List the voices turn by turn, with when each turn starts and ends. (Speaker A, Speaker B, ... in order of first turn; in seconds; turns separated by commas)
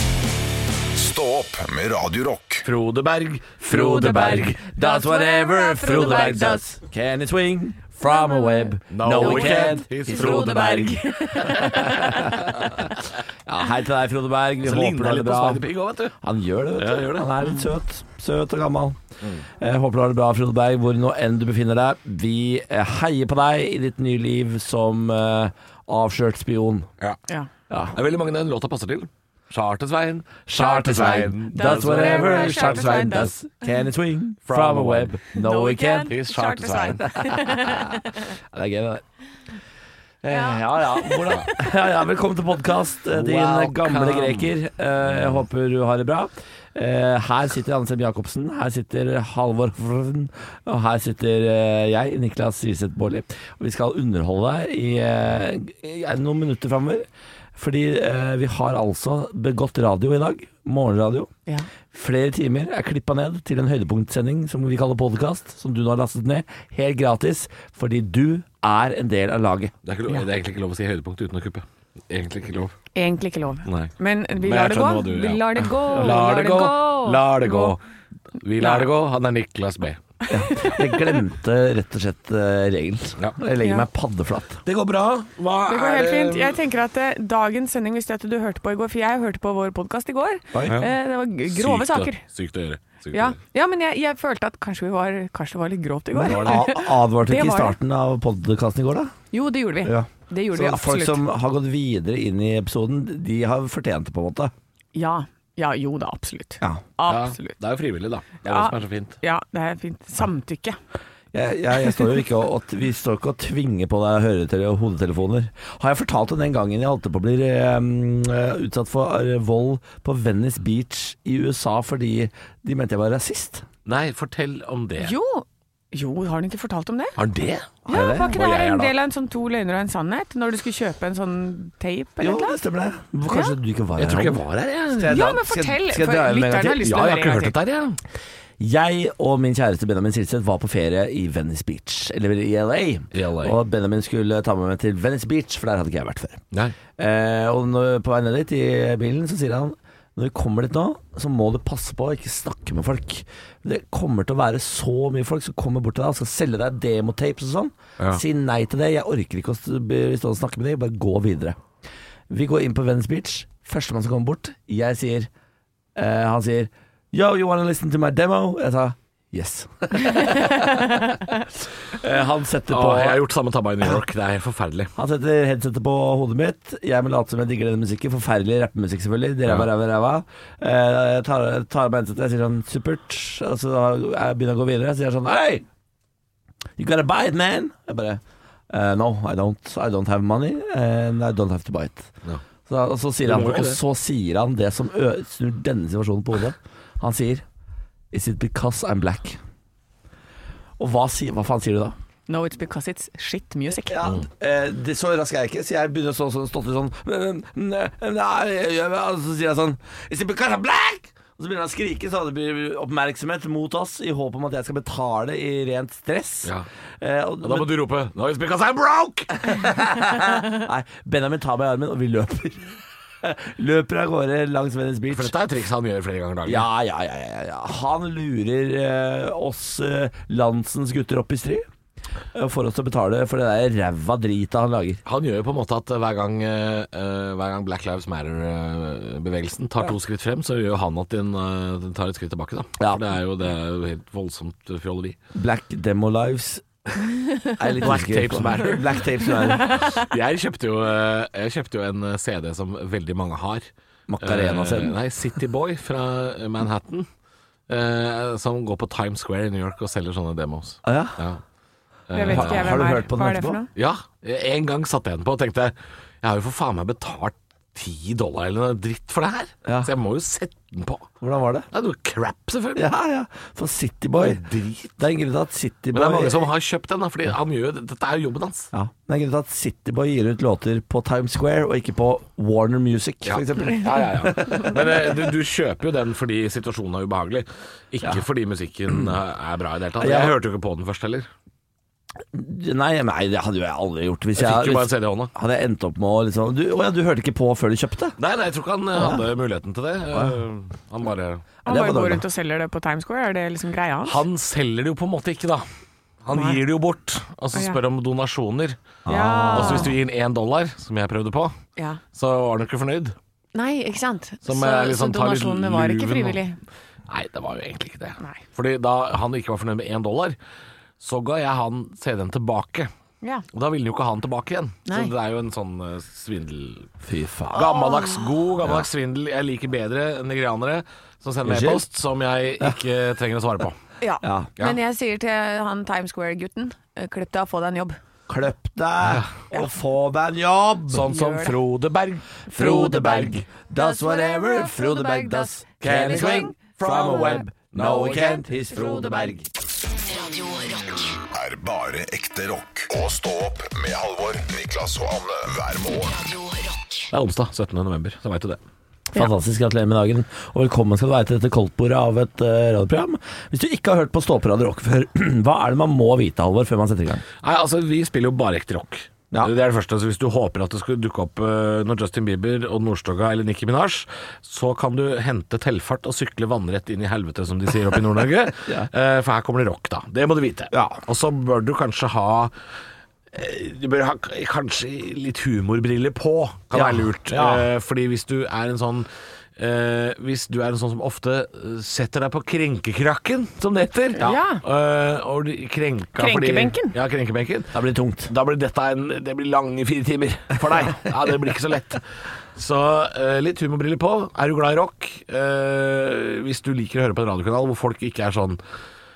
Speaker A: 0.9-2.6, Speaker B: 2.6-4.6, Speaker C: 3.7-12.9, Speaker D: 3.7-6.7, Speaker D: 8.0-12.3, Speaker B: 8.9-11.7, Speaker B: 12.4-12.7, Speaker C: 13.5-15.7, Speaker B: 14.6-16.2, Speaker C: 16.2-19.0, Speaker B: 16.8-17.3, Speaker C: 19.5-26.9, Speaker C: 27.7-28.0, Speaker B: 27.9-33.3, Speaker C: 30.5-36.1, Speaker D: 30.6-33.4, Speaker B: 34.5-35.2, Speaker D: 35.3-38.3, Speaker B: 36.1-37.1, Speaker C: 37.0-38.0, Speaker B: 38.5-39.0, Speaker C: 40.2-61.3, Speaker D: 40.3-41.7, Speaker B: 43.1-44.5, Speaker C: 61.9-69.7, Speaker B: 69.8-72.8, Speaker D: 73.0-77.8, Speaker B: 73.7-77.8, Speaker C: 75.9-76.3, Speaker B: 78.4-80.0, Speaker D: 78.6-78.9, Speaker C: 80.3-84.6, Speaker D: 80.3-81.1, Speaker B: 84.7-86.6, Speaker D: 85.7-92.2, Speaker C: 90.5-90.8, Speaker B: 90.7-90.9, Speaker B: 91.5-93.4, Speaker D: 93.1-97.8, Speaker C: 96.1-99.1, Speaker D: 99.3-101.2, Speaker C: 99.8-104.5, Speaker D: 105.0-107.6, Speaker B: 107.1-109.2, Speaker D: 108.5-110.8, Speaker C: 111.3-123.7, Speaker B: 123.8-125.2, Speaker D: 125.0-127.2, Speaker B: 127.2-128.9, Speaker D: 127.9-132.6, Speaker C: 127.9-128.4, Speaker C: 132.2-134.4, Speaker B: 134.0-135.2, Speaker C: 134.9-136.9, Speaker D: 135.1-137.6, Speaker B: 136.8-138.0, Speaker C: 138.6-146.4, Speaker B: 143.1-143.6, Speaker C: 147.0-161.6, Speaker C: 162.3-165.3, Speaker C: 165.9-171.2, Speaker C: 171.9-173.2, Speaker B: 172.7-174.9, Speaker C: 175.0-185.7, Speaker C: 186.8-192.1, Speaker C: 192.7-197.4, Speaker B: 193.2-193.8, Speaker C: 198.1-199.4, Speaker C: 200.8-202.0, Speaker D: 202.3-204.0, Speaker C: 203.9-217.7, Speaker B: 217.4-219.5, Speaker C: 219.4-225.3, Speaker B: 225.1-226.7, Speaker C: 226.5-231.7, Speaker C: 232.3-235.0, Speaker B: 235.1-245.2, Speaker C: 242.8-243.1, Speaker C: 245.3-246.7, Speaker C: 247.6-249.9, Speaker B: 247.8-253.7, Speaker C: 254.1-255.0, Speaker B: 254.2-257.1, Speaker B: 257.7-261.4, Speaker C: 260.9-261.2, Speaker B: 262.1-262.9, Speaker D: 262.1-263.7, Speaker C: 262.2-263.6, Speaker B: 263.8-271.1, Speaker C: 269.7-269.9, Speaker C: 271.2-271.7, Speaker B: 271.7-272.9, Speaker C: 272.8-274.4, Speaker B: 274.2-275.0, Speaker C: 275.0-276.5, Speaker B: 275.9-278.7, Speaker C: 278.7-285.1, Speaker B: 283.2-291.3, Speaker C: 290.0-290.4, Speaker C: 292.3-298.2, Speaker B: 294.4-295.3, Speaker B: 298.2-301.5, Speaker D: 301.6-304.2, Speaker C: 301.7-302.2, Speaker B: 304.1-305.6, Speaker B: 306.2-308.8, Speaker D: 306.3-306.6, Speaker D: 307.5-307.8, Speaker C: 309.1-310.0, Speaker D: 309.1-309.9, Speaker B: 309.5-311.5, Speaker D: 311.8-312.0, Speaker B: 312.1-313.1, Speaker D: 313.5-316.6, Speaker B: 314.4-316.4, Speaker B: 317.1-320.4, Speaker B: 321.0-322.9, Speaker B: 323.5-326.9, Speaker D: 324.9-325.1, Speaker C: 327.0-327.7, Speaker B: 327.5-333.8, Speaker D: 327.6-328.2, Speaker C: 331.4-331.8, Speaker D: 334.0-338.0, Speaker C: 334.2-334.5, Speaker C: 338.3-341.1, Speaker B: 339.1-339.3, Speaker B: 340.9-342.4, Speaker D: 341.1-341.6, Speaker D: 342.5-349.3, Speaker C: 342.5-349.5, Speaker B: 345.8-348.0, Speaker E: 349.9-351.2, Speaker A: 351.3-356.2, Speaker E: 356.0-357.1, Speaker B: 357.1-358.6, Speaker C: 359.1-367.2, Speaker B: 367.4-382.5, Speaker C: 380.7-381.0, Speaker B: 383.3-397.7, Speaker C: 386.7-387.7, Speaker D: 394.2-394.6, Speaker D: 396.2-397.0, Speaker C: 397.7-398.3, Speaker B: 398.3-402.0, Speaker B: 402.6-408.6